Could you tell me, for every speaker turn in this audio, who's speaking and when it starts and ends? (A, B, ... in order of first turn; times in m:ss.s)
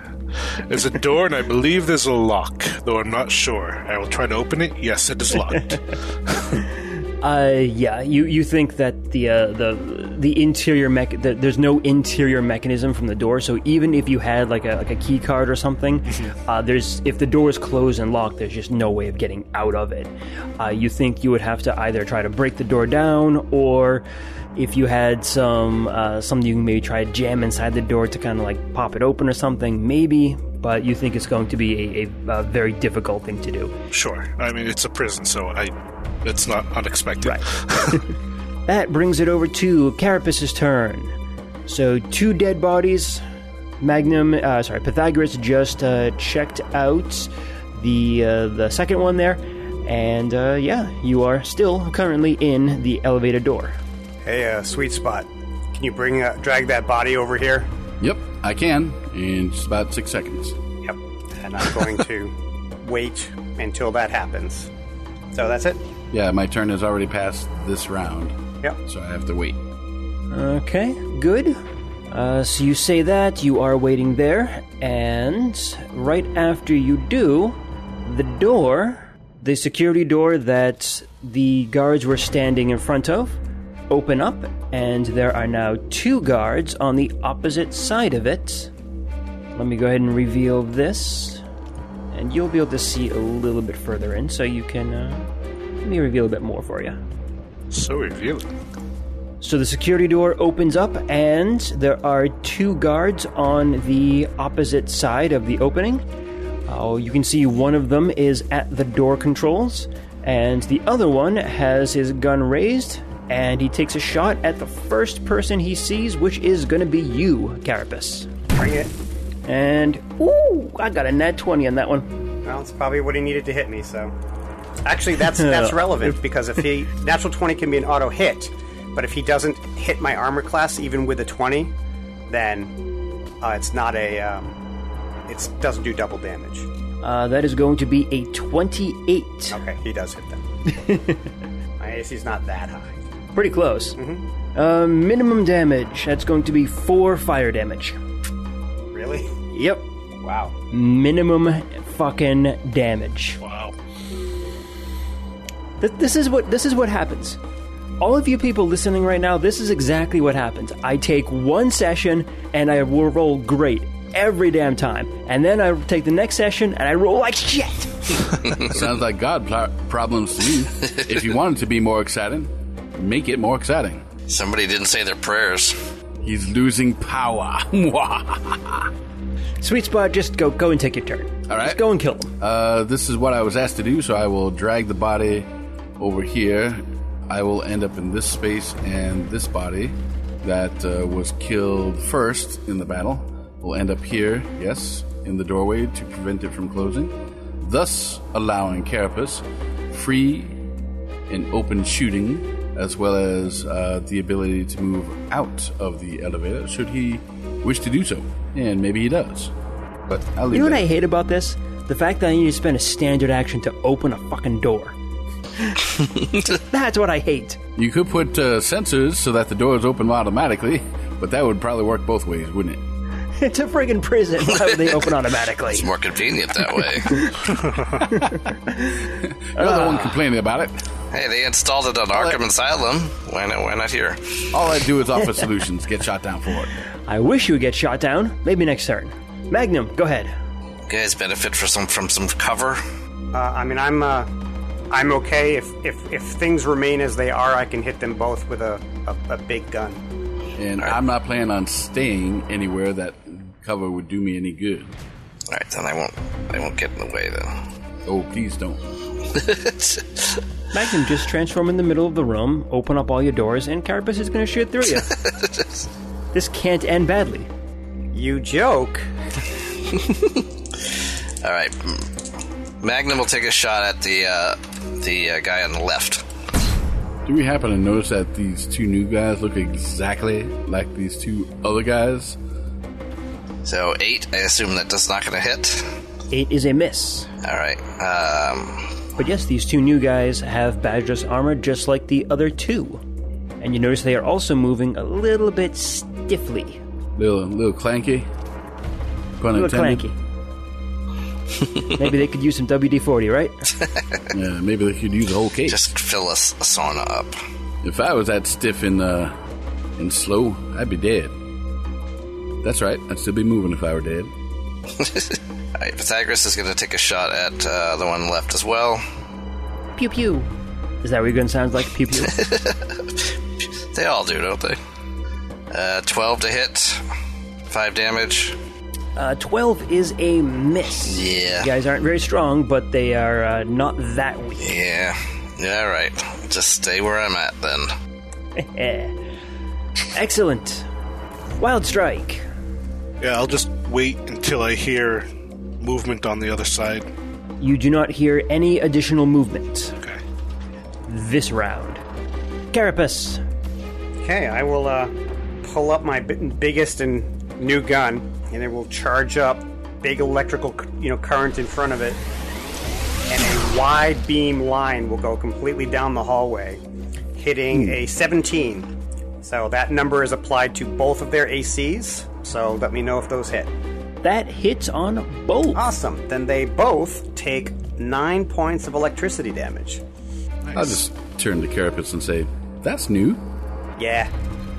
0:00.7-0:06.6 A
0:07.2-0:33.7 B
0:33.9-0:38.0 A
0:37.2-0:38.0 B
0:38.7-0:41.1 B
0:41.7-0:43.2 B
0:43.8-0:53.7 B
0:54.2-0:57.7 C
0:58.0-1:00.6 D
1:00.8-1:04.7 C
1:05.3-1:05.8 C
1:06.1-1:08.3 D
1:08.8-1:09.6 D
1:10.3-1:11.6 B
1:12.1-1:23.4 B
1:23.9-1:28.7 B
1:29.5-1:31.4 B
1:32.1-1:35.3 B
1:35.8-1:37.0 B
1:37.7-1:38.5 A
1:39.4-1:46.0 B
1:46.7-1:58.3 B
1:58.5-1:58.9 C
1:59.4-2:02.1 B
2:02.4-2:04.1 C
2:04.8-2:11.7 C
2:05.3-2:06.2 B
2:12.3-2:12.7 C
2:13.4-2:14.6 C
2:15.3-2:16.7 C
2:17.0-2:19.6 B
2:19.5-2:20.4 C
2:20.7-2:21.2 B
2:21.8-2:22.9 C
2:23.3-2:24.0 B
2:24.0-2:24.2 C
2:24.5-2:28.0 B
2:28.9-2:29.3 C
2:29.5-2:29.8 B
2:30.2-2:30.5 C
2:30.7-2:33.4 B
2:33.4-2:33.7 A
2:35.8-2:37.4 B
2:38.0-2:48.2 B
2:48.6-2:54.0 D
2:54.3-2:55.8 E
2:56.2-2:58.9 D
2:59.6-3:02.3 B
3:01.5-3:01.8 D
3:02.4-3:20.6 D
3:21.3-3:29.5 D
3:30.1-3:30.9 D
3:30.5-3:35.0 B
3:36.4-3:37.6 B
3:37.8-3:42.8 D
3:43.4-3:45.9 B
3:45.7-3:47.3 E
3:47.1-3:47.4 B
3:48.0-3:50.1 B
3:49.2-3:50.7 D
3:51.1-3:54.4 E
3:52.1-3:52.4 D
3:54.5-3:56.8 D
3:57.1-4:00.3 B
4:00.9-4:02.8 E
4:03.3-4:04.3 C
4:04.9-4:10.0 C
4:10.6-4:14.9 D
4:15.5-4:17.6 E
4:18.0-4:18.8 D
4:19.3-4:20.4 E
4:20.7-4:25.2 B
4:25.3-4:25.7 E
4:26.3-4:27.5 B
4:28.1-4:29.1 C
4:29.9-4:30.4 E
4:31.4-4:32.1 E
4:32.8-4:36.2 E
4:37.2-4:42.4 D
4:43.6-4:45.8 E
4:46.3-4:47.3 B
4:47.4-4:48.9 E
4:49.2-4:53.0 B
4:53.6-4:56.8 B
4:57.2-4:58.3 D
4:59.4-5:00.1 D
4:59.5-5:00.2 B
5:01.9-5:03.7 B
5:04.3-5:05.8 D
5:05.7-5:07.4 E
5:07.8-5:09.3 D
5:10.0-5:11.3 D
5:12.6-5:14.3 D
5:15.0-5:19.0 E
5:20.0-5:20.5 B
5:21.0-5:22.4 B
5:22.3-5:23.2 E
5:23.9-5:24.8 E
5:25.7-5:27.0 E
5:27.7-5:28.6 E
5:29.2-5:34.7 B
5:31.1-5:31.7 E
5:34.6-5:37.9 E
5:38.6-5:39.1 B
5:40.1-5:40.9 B
5:41.6-5:42.4 B
5:43.2-5:45.3 A
5:45.8-5:47.1 A
5:47.6-5:49.9 B
5:51.1-5:52.0 B
5:52.7-5:53.4 B
5:54.2-5:55.1 C
5:55.6-6:02.2 C
6:03.2-6:06.8 C
6:07.4-6:08.9 C
6:07.7-6:08.0 D
6:09.4-6:13.7 C
6:14.2-6:15.8 B
6:15.7-6:20.0 C
6:20.6-6:21.0 A
6:20.7-6:23.4 D
6:24.0-6:24.3 C